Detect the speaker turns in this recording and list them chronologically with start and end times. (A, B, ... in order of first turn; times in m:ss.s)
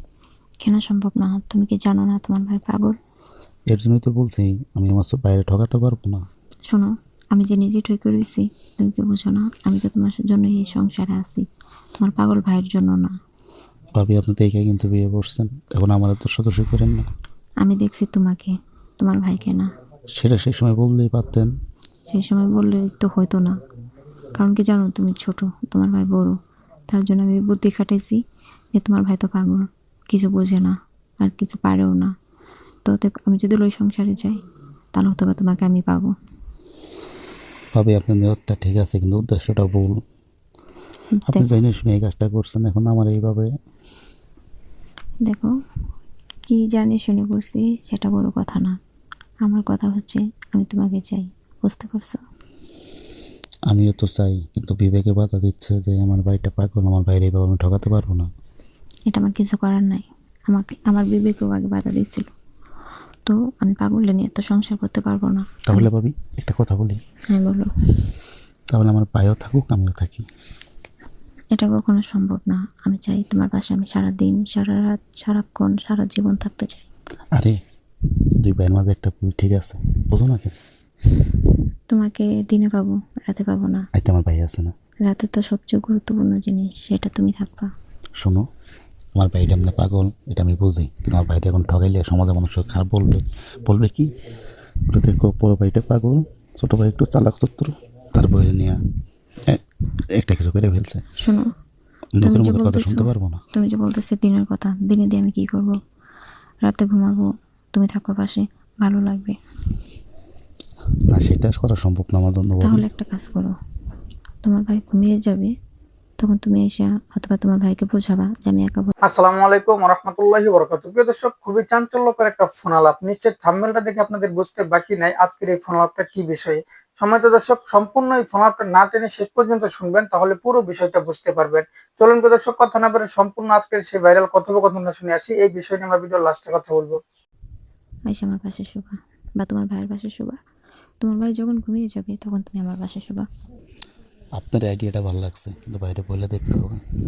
0:00.6-0:03.0 A
0:03.7-0:06.2 B
0:06.7-0:13.2 A
0:13.9-0:17.0 B
0:17.6-0:19.7 A
0:20.2-0:21.5 B
0:22.1-0:23.6 A
0:24.4-0:26.4 A
0:26.9-0:28.2 A
0:28.7-0:32.1 A
0:32.8-0:34.4 A
0:34.9-0:36.1 A
0:37.7-0:40.0 B
0:41.3-0:43.5 B
0:45.2-0:45.5 A
0:46.5-0:48.7 A
0:49.4-0:52.2 A
0:53.7-0:58.3 B
0:59.1-1:02.3 A
1:03.2-1:05.8 A
1:05.7-1:07.0 B
1:07.3-1:07.7 A
1:08.7-1:10.2 B
1:11.5-1:16.8 A
1:18.4-1:20.5 B
1:21.9-1:23.8 A
1:23.9-1:24.7 B
1:25.0-1:27.7 A
1:29.2-1:34.1 B
1:34.9-1:38.8 B
1:40.2-1:41.0 B
1:42.2-1:43.4 B
1:42.2-1:45.8 A
1:46.6-1:49.4 A
1:51.1-1:52.9 B
1:52.6-1:53.5 A
1:54.4-1:55.5 A
1:56.2-1:58.9 A
1:59.0-2:17.0 C
2:18.1-2:20.4 A
2:21.0-2:23.2 A
2:24.4-2:26.8 B